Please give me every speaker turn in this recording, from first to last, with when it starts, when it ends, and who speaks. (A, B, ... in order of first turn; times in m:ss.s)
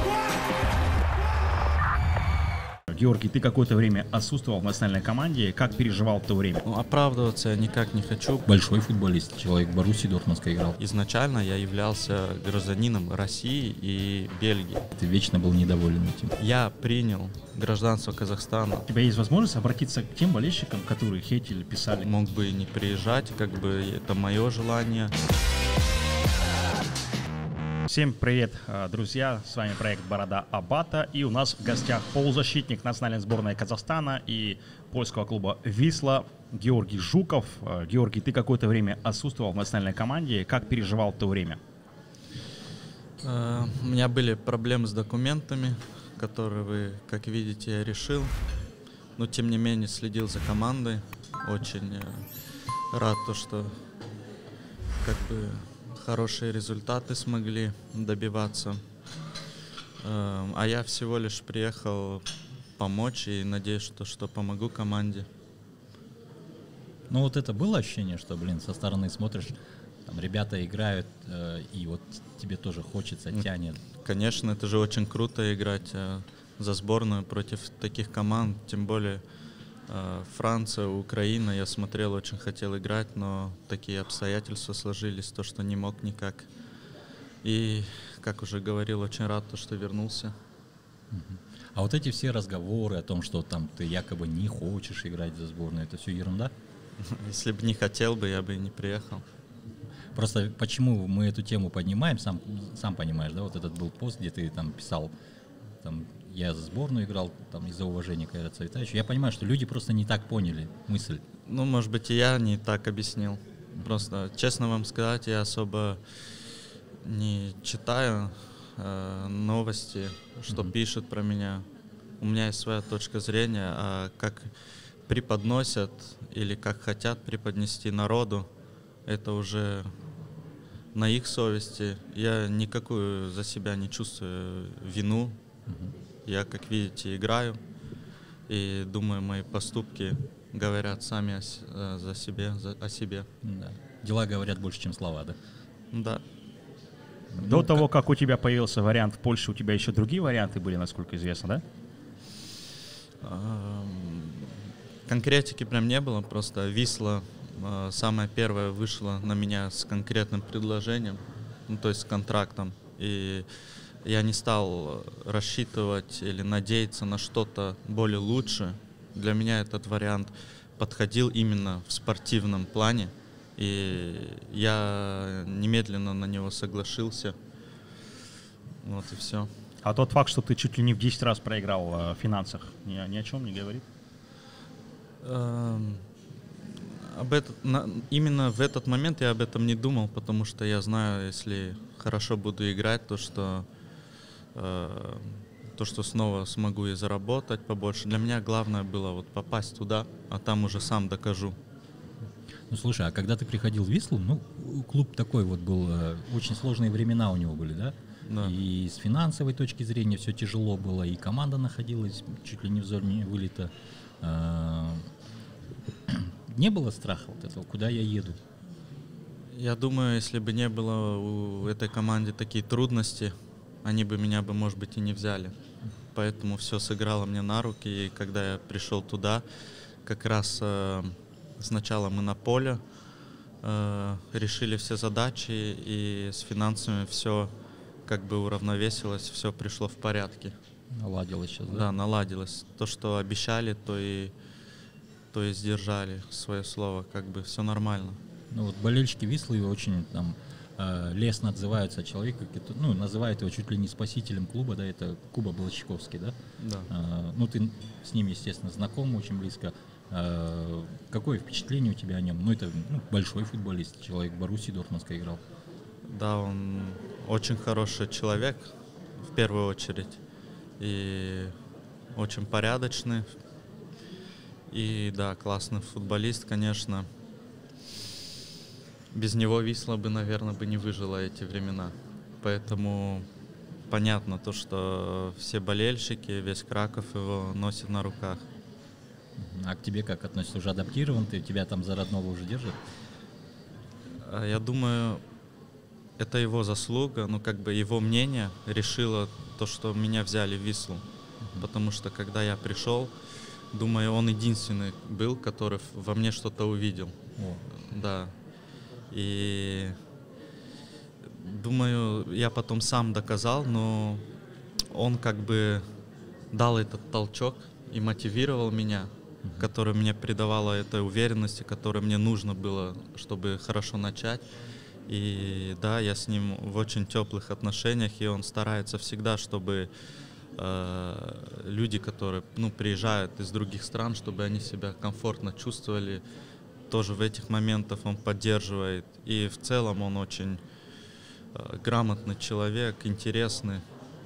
0:02.9-0:06.6 A
0:06.6-0:08.4 B
0:08.5-0:10.8 C
0:10.8-0:14.9 B
0:14.9-0:16.3 C
0:16.4-0:18.8 B
0:18.9-0:22.1 A
0:22.0-0:25.1 B
0:27.9-0:41.6 A
0:43.2-0:48.3 B
0:49.2-0:52.2 B
0:52.9-0:53.8 B
0:55.0-0:58.8 B
1:00.0-1:02.2 B
1:02.8-1:05.3 B
1:07.1-1:13.8 C
1:14.0-1:19.2 B
1:19.9-1:26.5 B
1:27.4-1:30.3 B
1:31.1-1:36.5 C
1:37.0-1:39.2 B
1:40.1-1:45.1 C
1:45.8-1:51.2 C
1:51.4-1:56.0 B
1:57.0-2:01.6 B
2:02.2-2:04.5 B
2:05.1-2:08.5 B
2:09.1-2:09.9 B
2:10.9-2:15.4 B
2:15.7-2:15.9 C
2:16.2-2:17.6 B
2:18.5-2:23.3 B
2:23.4-2:25.4 C
2:25.9-2:26.2 B
2:27.3-2:27.8 C
2:27.4-2:31.6 A
2:33.2-2:34.5 B
2:35.1-2:43.4 B
2:44.0-2:57.3 B
2:58.8-2:59.5 B
2:59.8-3:03.8 A
3:05.2-3:06.0 B
3:06.9-3:13.6 B
3:14.5-3:21.6 B
3:22.7-3:35.1 C
3:28.2-3:28.5 B
3:36.1-3:38.4 C
3:39.5-3:43.3 B
3:43.8-3:45.5 B
3:46.1-3:49.4 B
3:50.0-3:52.8 B
3:53.6-3:57.5 B
3:58.0-4:00.5 B
4:00.9-4:01.9 C
4:01.7-4:04.3 B
4:05.3-4:08.2 B
4:08.5-4:16.4 C
4:16.6-4:16.9 B
4:16.9-4:25.4 C
4:26.1-4:28.7 B
4:29.2-4:30.2 B
4:30.8-4:31.5 B
4:32.2-4:33.3 B
4:34.7-4:37.1 B
4:39.1-4:43.2 B
4:43.9-4:48.4 B
4:49.4-4:52.8 C
4:54.2-4:55.2 B
4:56.2-5:01.0 B
5:01.4-5:01.7 C
5:01.6-5:03.1 B
5:03.7-5:07.2 B
5:07.4-5:07.6 C
5:07.7-5:08.3 B
5:09.1-5:10.0 B
5:11.3-5:14.2 B
5:14.9-5:15.8 B
5:16.5-5:24.4 B
5:19.4-5:19.7 C
5:25.1-5:29.9 B
5:30.6-5:36.2 B
5:36.9-5:40.6 B
5:41.5-5:43.8 B